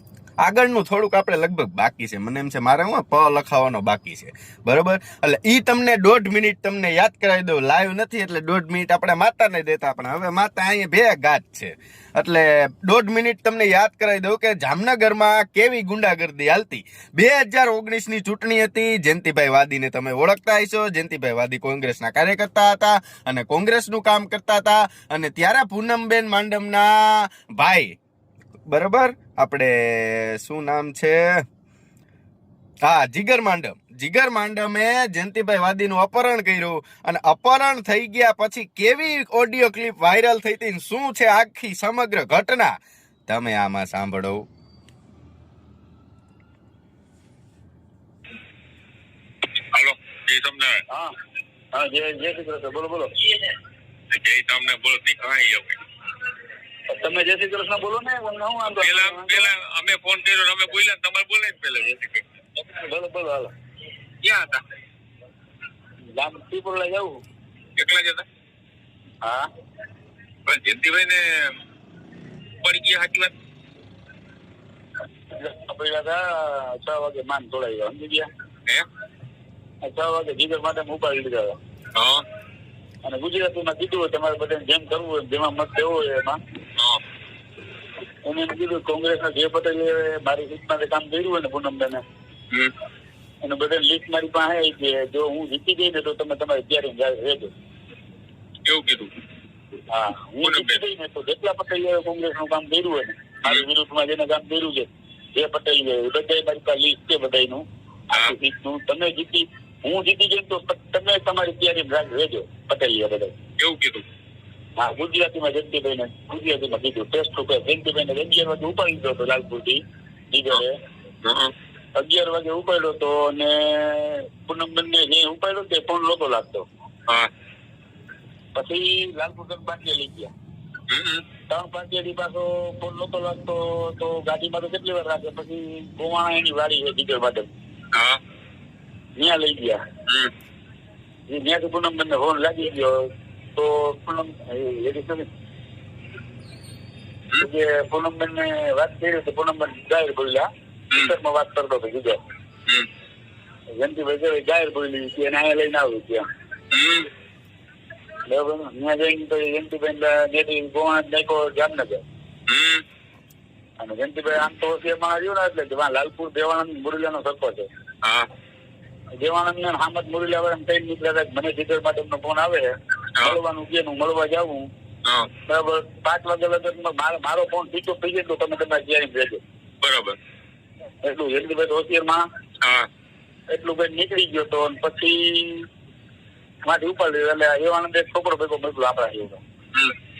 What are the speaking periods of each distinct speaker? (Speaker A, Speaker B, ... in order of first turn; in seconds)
Speaker A: 0.4-28.0, 28.7-31.4, 32.8-42.8, 43.3-44.4
Speaker B: 49.7-50.8, 54.1-55.8, 58.8-62.2, 64.2-64.6, 67.8-68.2, 70.5-71.5, 72.6-73.3, 81.9-82.2, 98.7-99.1, 100.4-100.8, 113.6-114.0, 121.2-121.5, 130.9-131.2, 137.9-138.2, 140.1-140.3, 156.7-157.1, 162.5-162.8, 168.0-168.3, 179.8-180.2, 182.6-182.9
Speaker C: 51.7-53.3, 56.9-59.5, 62.6-63.5, 66.1-67.1, 75.3-78.3, 79.8-81.5, 83.0-86.4, 88.2-92.0, 93.4-97.5, 99.9-113.3, 114.8-119.8, 120.3-120.8, 122.0-126.7, 128.5-130.3, 131.5-137.5, 139.2-139.8, 141.3-145.3, 147.4-152.2, 153.8-156.2, 158.3-162.0, 163.8-167.7, 169.2-174.7, 175.5-179.4, 181.0-182.2, 183.5-185.7, 186.6-189.4